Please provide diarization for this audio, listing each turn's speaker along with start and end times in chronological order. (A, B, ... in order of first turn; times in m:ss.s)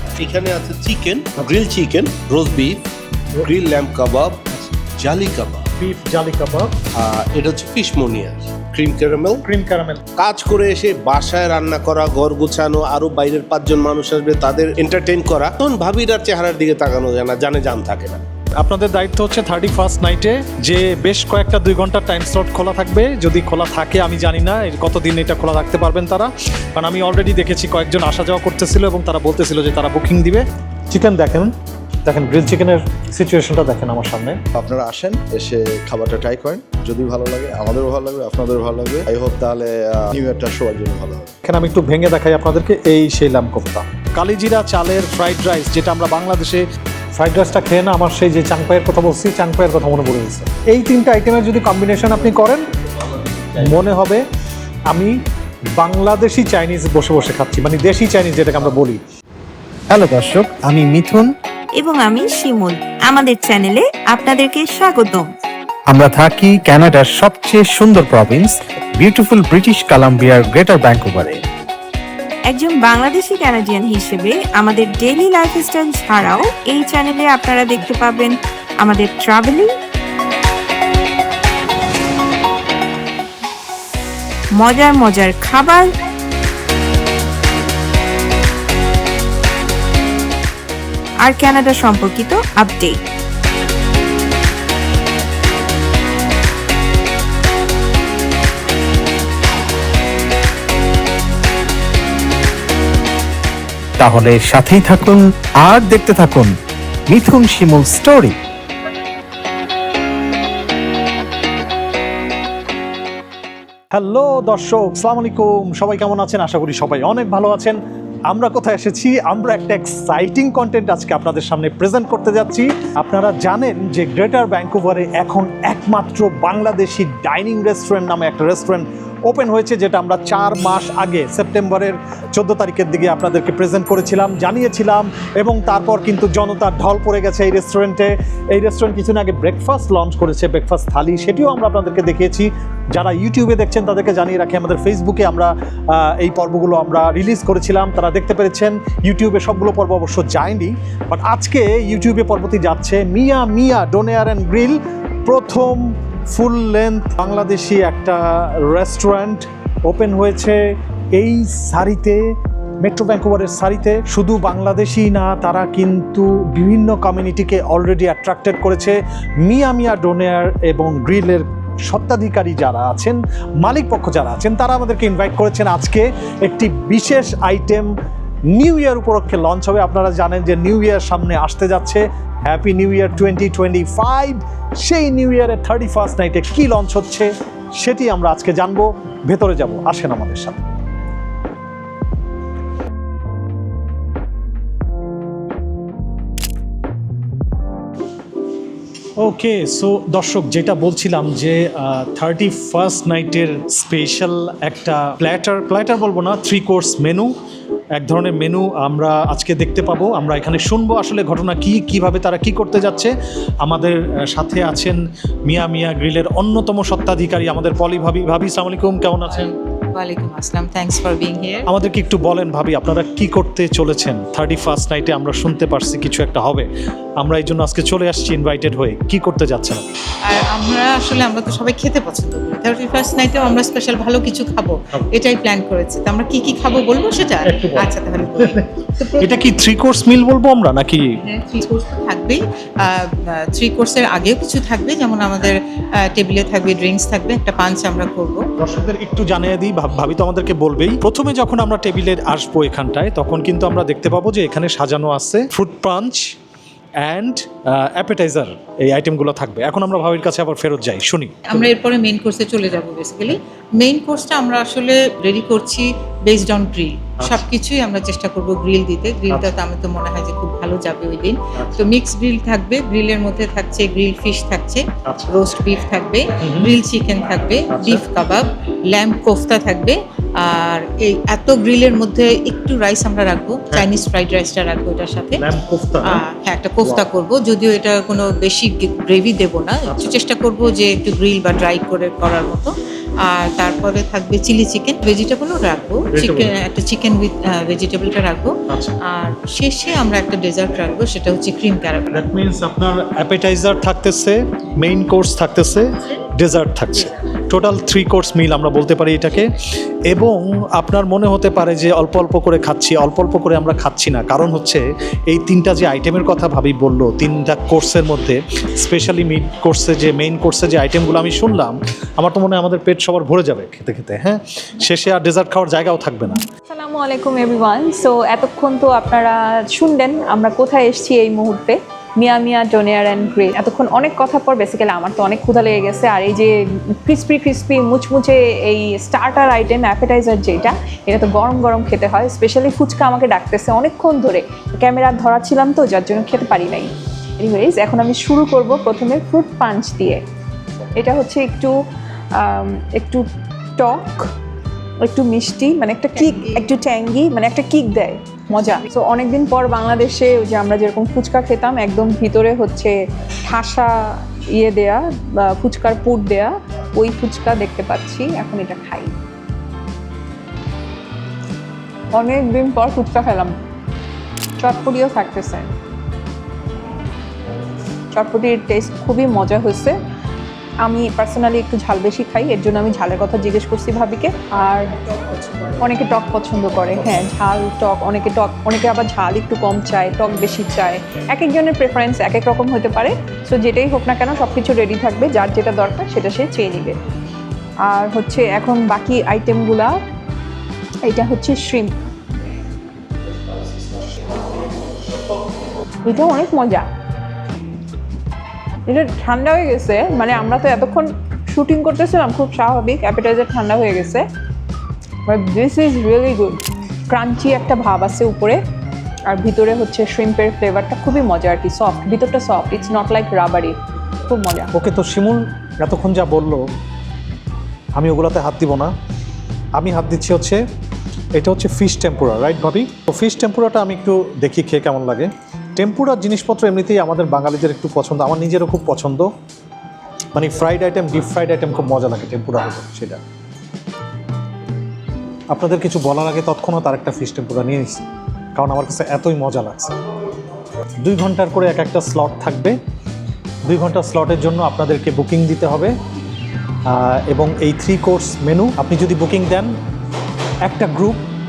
0:00.2-0:02.8 A
0:03.4-0:04.4 A
0:05.0-0:05.7 A
0:05.8-0:06.7 B
0:07.0-0:09.4 A
0:09.4-0:10.0 B
0:10.2-0:18.2 A
0:18.6-0:31.5 B
0:32.0-0:34.4 B
0:34.7-0:41.3 C
0:41.4-0:46.6 B
0:47.2-0:52.6 B
0:53.5-0:54.2 B
0:55.8-0:59.0 B
1:00.0-1:01.2 B
1:01.8-1:05.3 D
1:06.3-1:08.4 B
1:09.0-1:11.1 B
1:12.4-1:19.7 D
1:24.6-1:25.9 D
1:31.2-1:33.0 D
1:44.0-1:46.4 E
1:47.1-1:48.3 E
1:53.9-2:40.6 B
2:41.1-2:42.2 B
2:42.8-2:57.9 B
2:58.5-3:10.6 B
3:19.2-3:27.3 B
3:27.9-3:39.5 B
3:39.2-3:41.7 F
3:41.7-3:46.7 B
3:47.2-3:49.8 B
3:50.3-3:58.6 F
3:57.4-4:01.1 B
4:01.2-4:08.5 F
4:08.6-4:16.2 B
4:17.0-4:21.4 B
4:21.5-4:45.4 F
4:31.6-4:31.9 B
4:36.4-4:36.8 B
4:37.7-4:38.0 B
4:45.4-4:46.2 B
4:46.0-4:52.7 F
4:49.9-4:50.1 B
4:53.2-4:58.6 F
4:56.1-4:56.5 B
4:59.1-5:02.2 F
5:02.1-5:09.5 B
5:10.1-5:26.4 B
5:26.6-5:50.2 G
5:51.0-5:51.7 G
5:52.3-5:53.2 G
5:53.8-5:54.3 G
5:55.0-6:02.9 G
5:56.2-5:56.7 F
6:03.5-6:09.1 G
6:12.1-6:13.5 G
6:14.6-6:15.7 G
6:18.1-6:19.9 G
6:20.8-6:24.9 G
6:25.8-6:37.0 G
6:37.8-6:39.9 G
6:41.0-6:41.9 G
6:46.0-6:46.9 G
6:48.9-6:54.2 G
6:55.2-6:58.6 G
6:59.3-7:03.7 G
7:04.3-7:04.7 G
7:04.7-7:06.6 B
7:08.0-7:08.9 B
7:09.8-7:10.6 B
7:11.3-7:19.3 B
7:20.3-7:23.2 B
7:25.5-7:28.0 B
7:28.6-7:29.9 B
7:31.0-7:32.8 B
7:33.6-7:35.9 B
7:36.9-7:39.7 B
7:40.6-7:41.2 B